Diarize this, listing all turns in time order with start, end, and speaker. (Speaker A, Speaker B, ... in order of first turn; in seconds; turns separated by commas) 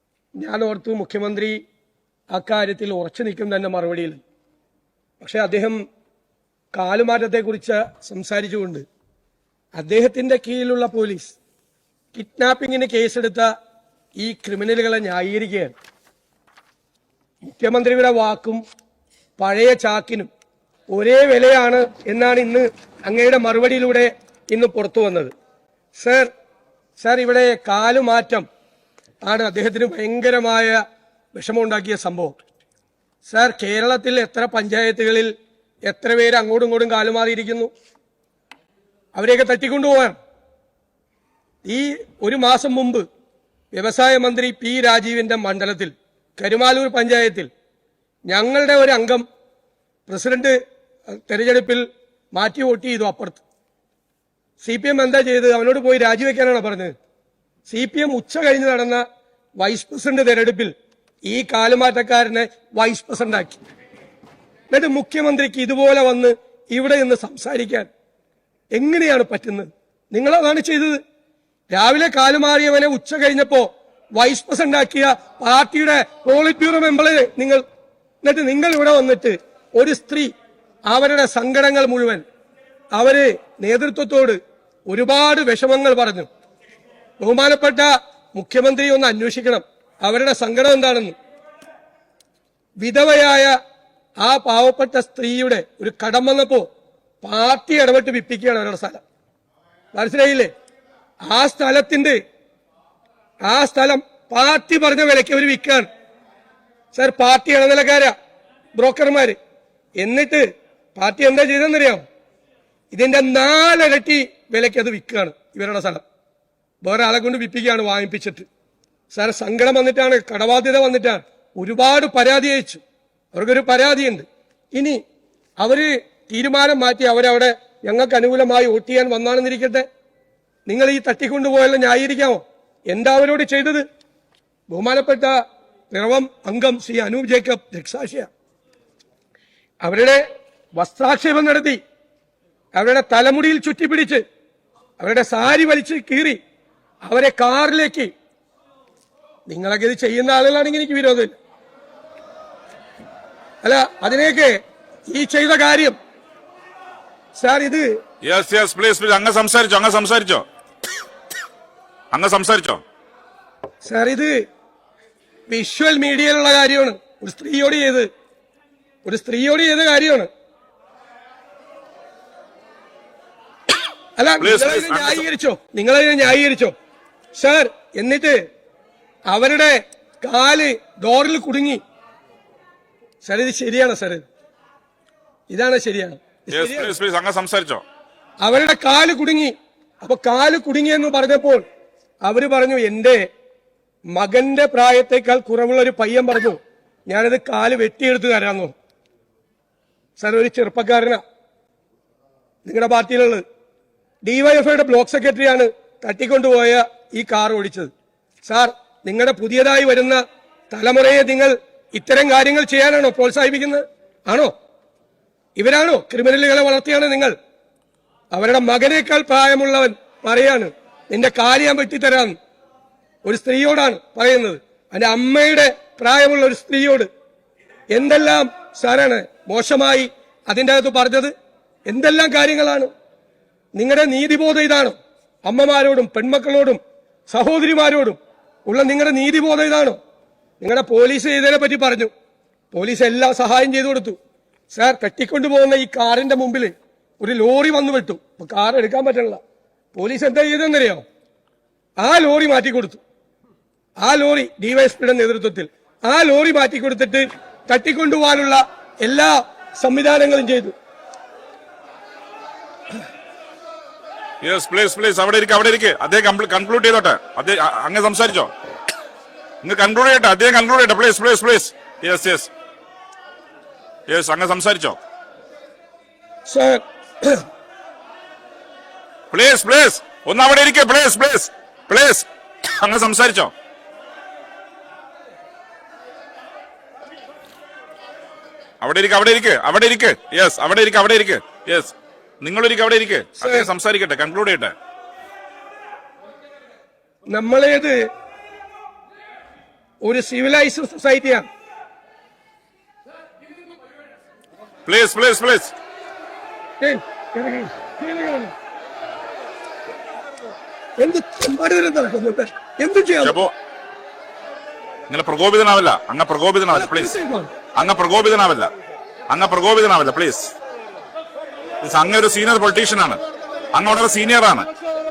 Speaker A: 0.4-1.6, Speaker A: 2.3-4.2, Speaker A: 5.2-5.8, Speaker A: 6.7-8.8, Speaker A: 9.7-11.3, Speaker A: 12.1-13.5, Speaker A: 14.2-15.7, Speaker A: 17.4-18.6, Speaker A: 19.4-20.3, Speaker A: 20.9-25.3, Speaker A: 25.9-26.3, Speaker A: 27.0-28.4, Speaker A: 29.2-30.8, Speaker A: 31.3-32.4, Speaker A: 33.3-35.3, Speaker A: 35.9-37.7, Speaker A: 39.1-40.1, Speaker A: 41.6-43.0, Speaker A: 43.7-47.5, Speaker A: 48.3-49.2, Speaker A: 50.1-53.4, Speaker A: 54.6-56.9, Speaker A: 57.7-59.0, Speaker A: 59.6-60.7, Speaker A: 61.3-63.6, Speaker A: 64.7-67.9, Speaker A: 68.7-71.0, Speaker A: 71.7-77.6, Speaker A: 78.2-80.3, Speaker A: 80.9-82.2, Speaker A: 82.9-86.3, Speaker A: 87.2-91.1, Speaker A: 92.8-93.6, Speaker A: 94.2-96.7, Speaker A: 97.2-99.0, Speaker A: 99.9-100.5, Speaker A: 101.2-102.2, Speaker A: 103.4-105.9, Speaker A: 106.9-108.1, Speaker A: 108.8-109.3, Speaker A: 110.0-112.0, Speaker A: 112.9-116.0, Speaker A: 116.8-118.5, Speaker A: 119.1-122.8, Speaker A: 123.3-125.0, Speaker A: 125.6-129.8, Speaker A: 130.7-133.8, Speaker A: 134.7-135.3, Speaker A: 135.9-138.3, Speaker A: 139.8-140.2, Speaker A: 140.8-141.8, Speaker A: 142.7-144.2, Speaker A: 145.0-146.4, Speaker A: 147.0-148.1, Speaker A: 149.5-151.3, Speaker A: 153.6-156.0, Speaker A: 157.3-157.9, Speaker B: 158.2-160.4, Speaker B: 162.1-162.8, Speaker A: 163.8-164.4, Speaker A: 165.5-168.1, Speaker A: 169.0-170.3, Speaker A: 174.2-176.7, Speaker B: 174.4-175.2, Speaker A: 177.3-178.4, Speaker A: 179.3-181.8, Speaker A: 183.2-184.2, Speaker A: 185.5-186.9, Speaker B: 186.5-187.8, Speaker A: 188.4-191.6, Speaker A: 192.2-193.2, Speaker A: 194.1-198.7, Speaker A: 200.2-201.2, Speaker A: 202.6-203.4, Speaker A: 204.2-207.9, Speaker A: 208.4-214.5, Speaker A: 215.6-217.3, Speaker A: 218.3-222.3, Speaker A: 223.2-227.1, Speaker A: 227.9-231.3, Speaker A: 231.9-232.9, Speaker A: 233.7-240.0, Speaker A: 240.6-242.1, Speaker A: 242.7-244.2, Speaker A: 244.7-249.4, Speaker A: 249.9-251.0, Speaker A: 252.0-253.0, Speaker A: 254.0-260.7, Speaker B: 264.4-268.5, Speaker B: 269.6-272.5, Speaker B: 274.1-275.0, Speaker A: 276.5-277.4, Speaker B: 279.3-283.5, Speaker B: 288.8-294.7, Speaker A: 293.4-293.7, Speaker A: 297.3-298.0, Speaker A: 300.0-301.4, Speaker B: 304.9-305.7, Speaker A: 306.8-308.5, Speaker A: 311.0-313.4, Speaker B: 313.2-313.5, Speaker B: 315.1-317.1, Speaker A: 316.7-317.5, Speaker B: 317.8-318.7, Speaker B: 319.3-320.5, Speaker B: 321.8-323.2, Speaker B: 323.7-324.7